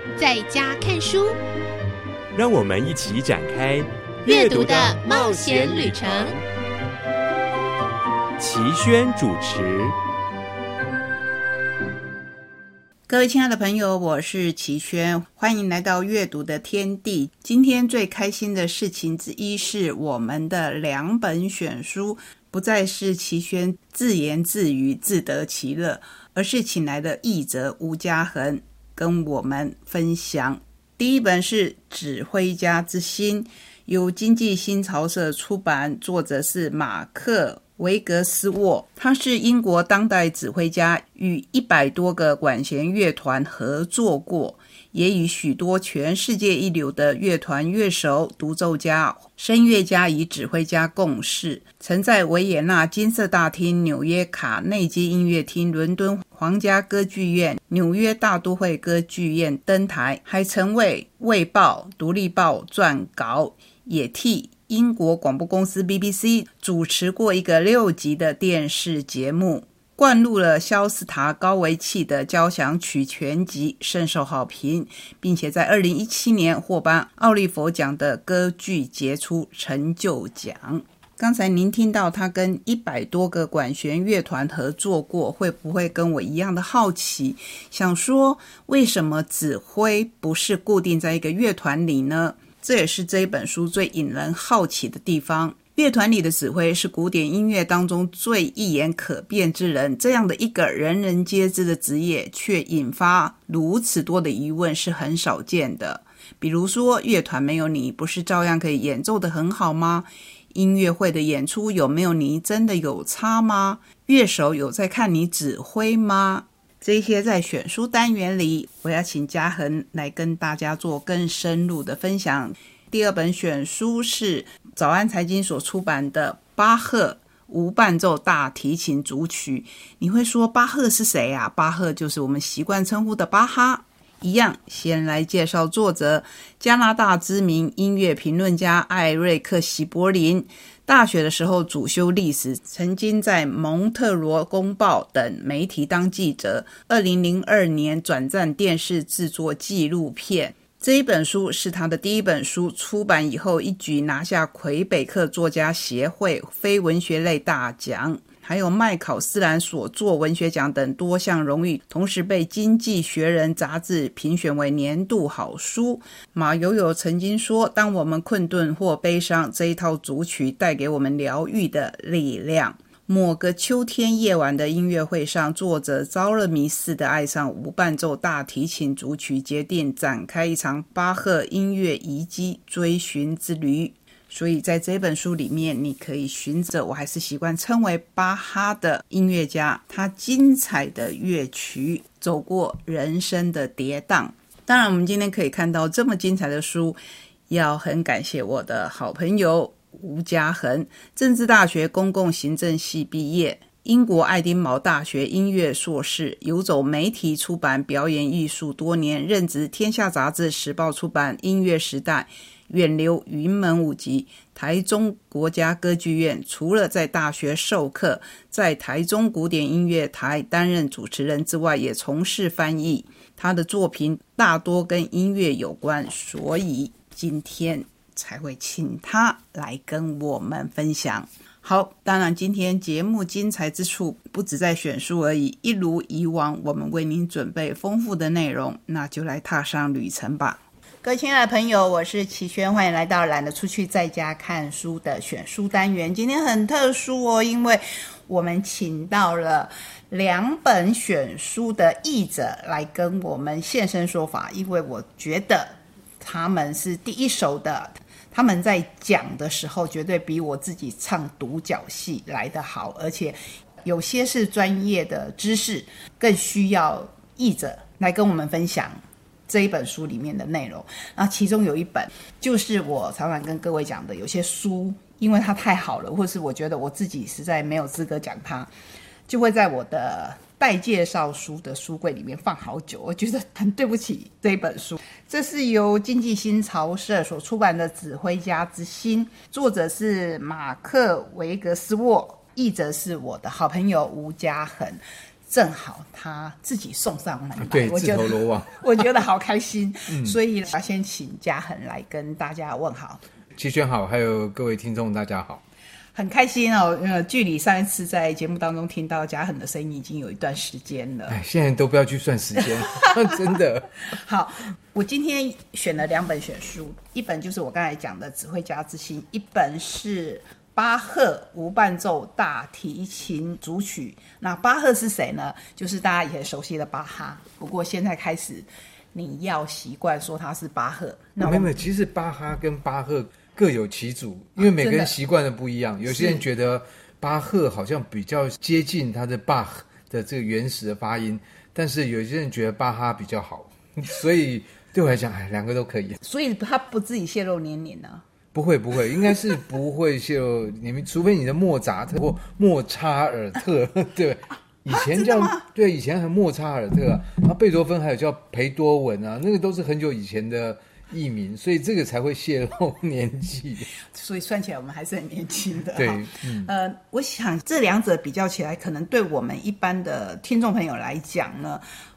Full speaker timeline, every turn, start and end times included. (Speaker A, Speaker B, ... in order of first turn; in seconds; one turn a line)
Speaker A: 0.2-1.4
Speaker B: 2.3-6.4
Speaker A: 4.2-6.3
Speaker B: 8.4-9.9
Speaker C: 13.1-278.7
Speaker C: 279.3-303.2
Speaker D: 297.6-299.1
Speaker D: 300.1-300.4
Speaker D: 303.6-305.6
Speaker C: 306.1-311.4
Speaker D: 311.3-313.9
Speaker C: 312.9-313.4
Speaker C: 314.0-331.7
Speaker D: 331.4-346.2
Speaker C: 334.6-335.1
Speaker C: 336.0-336.4
Speaker C: 346.2-348.2
Speaker D: 348.5-363.9
Speaker C: 354.9-355.6
Speaker C: 364.0-371.8
Speaker D: 365.9-366.7